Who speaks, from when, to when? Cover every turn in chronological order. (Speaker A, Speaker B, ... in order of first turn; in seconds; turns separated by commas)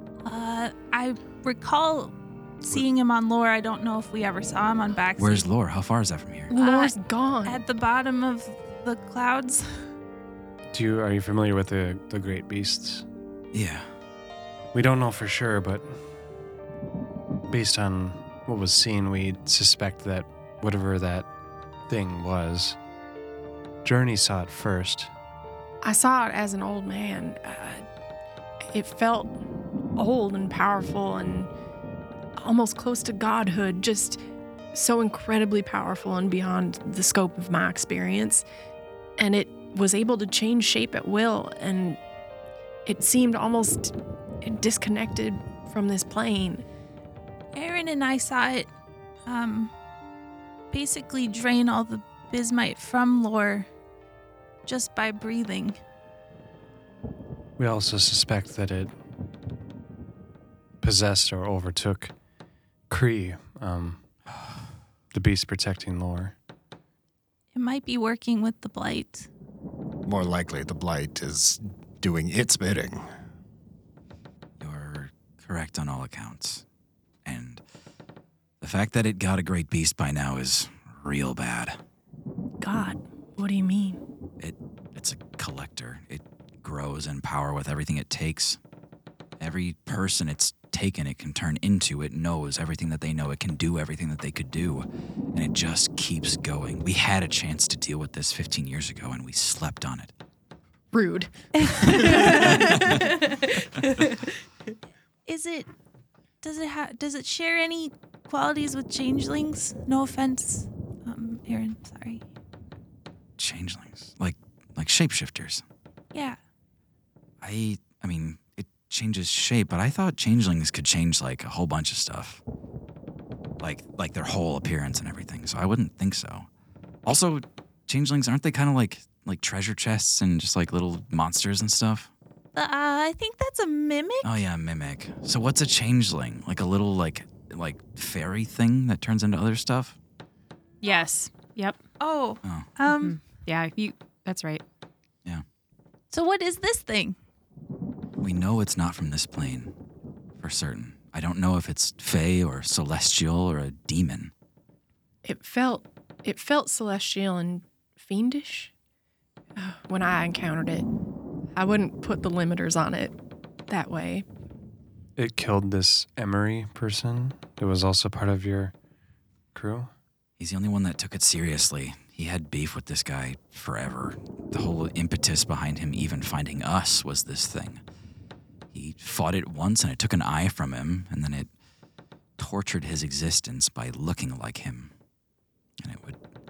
Speaker A: 0.2-5.5, Speaker B: 5.2-6.5, Speaker C: 6.5-7.6, Speaker A: 6.5-9.9, Speaker D: 10.7-13.1, Speaker B: 13.5-13.9, Speaker D: 14.7-15.9, Speaker D: 17.5-21.3, Speaker D: 21.9-22.8, Speaker D: 23.9-25.1, Speaker C: 25.8-27.9, Speaker C: 28.7-29.3, Speaker C: 30.0-31.5, Speaker C: 32.4-34.2, Speaker C: 34.7-38.4, Speaker C: 39.2-42.0, Speaker C: 42.9-46.6, Speaker A: 47.5-48.7, Speaker A: 49.3-49.7, Speaker A: 50.7-53.7, Speaker A: 54.7-55.8, Speaker D: 57.6-58.9, Speaker D: 60.8-62.1, Speaker D: 62.9-64.0, Speaker D: 65.1-66.3, Speaker A: 67.5-69.3, Speaker E: 70.0-73.0, Speaker B: 74.6-76.6, Speaker B: 77.2-77.6, Speaker B: 78.6-81.8, Speaker C: 82.6-84.0, Speaker B: 84.4-88.6, Speaker B: 89.4-100.1, Speaker C: 100.9-104.4, Speaker A: 101.6-103.1, Speaker A: 105.3-105.7, Speaker A: 106.4-112.2, Speaker B: 113.4-115.6, Speaker B: 117.4-122.4, Speaker B: 123.6-126.5, Speaker B: 127.1-132.1, Speaker A: 132.6-134.4, Speaker B: 134.2-140.0, Speaker F: 140.8-141.8, Speaker A: 142.0-143.2, Speaker B: 142.4-142.7, Speaker F: 142.8-144.6, Speaker A: 146.1-147.2, Speaker B: 148.2-149.7, Speaker B: 150.4-154.3, Speaker C: 155.2-158.7, Speaker C: 159.6-160.9, Speaker C: 161.6-163.2, Speaker C: 163.7-164.2, Speaker D: 165.2-168.7, Speaker D: 169.5-169.9, Speaker B: 170.4-177.8, Speaker B: 178.7-181.5, Speaker B: 182.4-184.9, Speaker B: 185.8-186.2